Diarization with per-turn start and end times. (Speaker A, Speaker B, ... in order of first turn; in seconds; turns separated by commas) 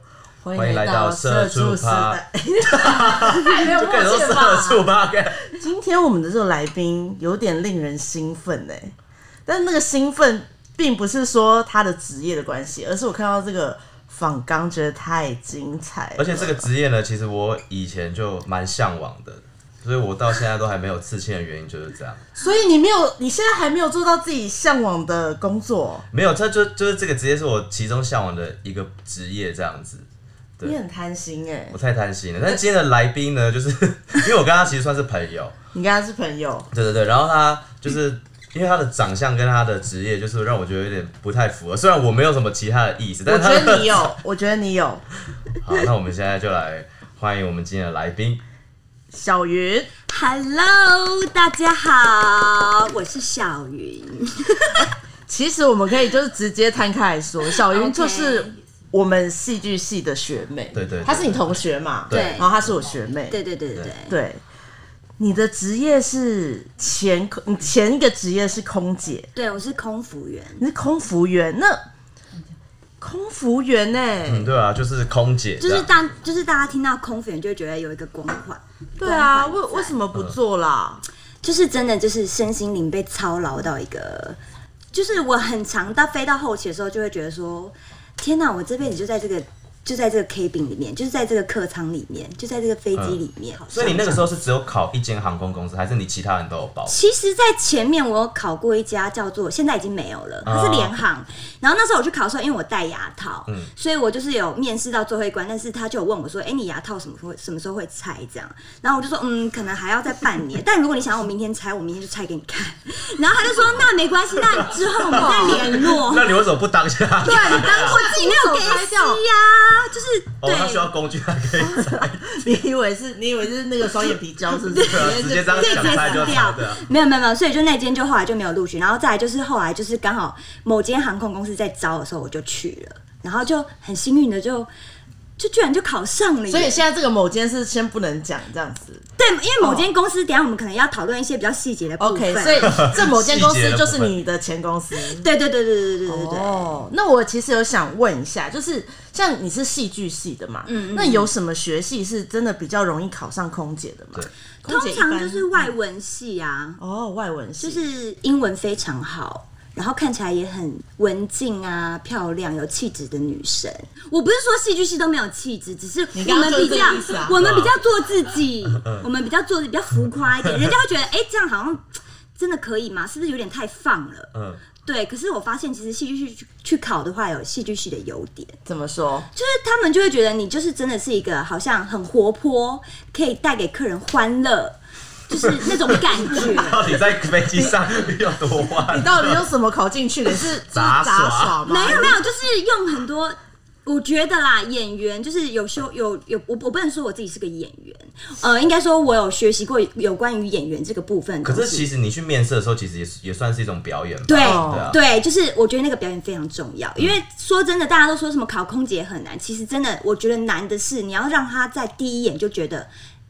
Speaker A: 0.4-4.9, Speaker B: 0.5-5.5, Speaker A: 5.5-8.9, Speaker A: 9.4-16.6, Speaker B: 16.2-22.2, Speaker A: 22.4-26.0, Speaker B: 26.1-30.1, Speaker A: 30.6-31.8, Speaker B: 31.7-35.5, Speaker A: 35.7-36.7, Speaker B: 36.7-44.0, Speaker A: 43.3-45.0, Speaker B: 45.6-48.4, Speaker A: 49.1-49.9, Speaker C: 50.1-54.9, Speaker A: 55.3-63.4, Speaker C: 57.6-58.5, Speaker B: 60.7-62.5, Speaker C: 62.1-62.5, Speaker C: 63.3-64.1, Speaker A: 64.1-64.4, Speaker A: 65.2-69.3, Speaker C: 69.3-70.6, Speaker A: 70.6-71.8, Speaker A: 73.0-74.5, Speaker B: 74.2-75.9, Speaker C: 75.6-79.9, Speaker A: 79.0-81.0, Speaker C: 81.4-84.4, Speaker C: 84.9-94.3, Speaker B: 93.7-96.9, Speaker C: 96.9-116.3, Speaker B: 100.5-101.0, Speaker B: 113.5-113.9, Speaker B: 114.5-118.0, Speaker A: 115.2-115.9, Speaker A: 117.2-119.2, Speaker C: 117.2-120.9, Speaker B: 120.4-122.2, Speaker A: 121.6-126.4, Speaker C: 124.7-134.7, Speaker B: 124.9-126.8, Speaker C: 135.4-136.8, Speaker A: 136.5-139.0, Speaker C: 139.2-142.8, Speaker A: 139.6-139.8, Speaker A: 142.0-145.2, Speaker B: 142.6-144.2, Speaker C: 144.9-146.8, Speaker A: 146.1-155.7, Speaker C: 150.7-151.3, Speaker C: 154.6-156.8, Speaker A: 156.8-157.8, Speaker C: 157.6-171.8, Speaker A: 166.1-167.3, Speaker B: 167.4-167.7, Speaker C: 172.3-174.3, Speaker B: 174.3-174.6, Speaker C: 174.8-178.6, Speaker A: 178.7-179.3, Speaker C: 179.3-184.8, Speaker C: 185.3-186.8, Speaker B: 185.6-189.5, Speaker A: 188.8-192.2, Speaker B: 190.3-191.6, Speaker C: 191.7-201.9, Speaker B: 201.4-205.0, Speaker C: 204.2-212.9, Speaker A: 204.4-204.9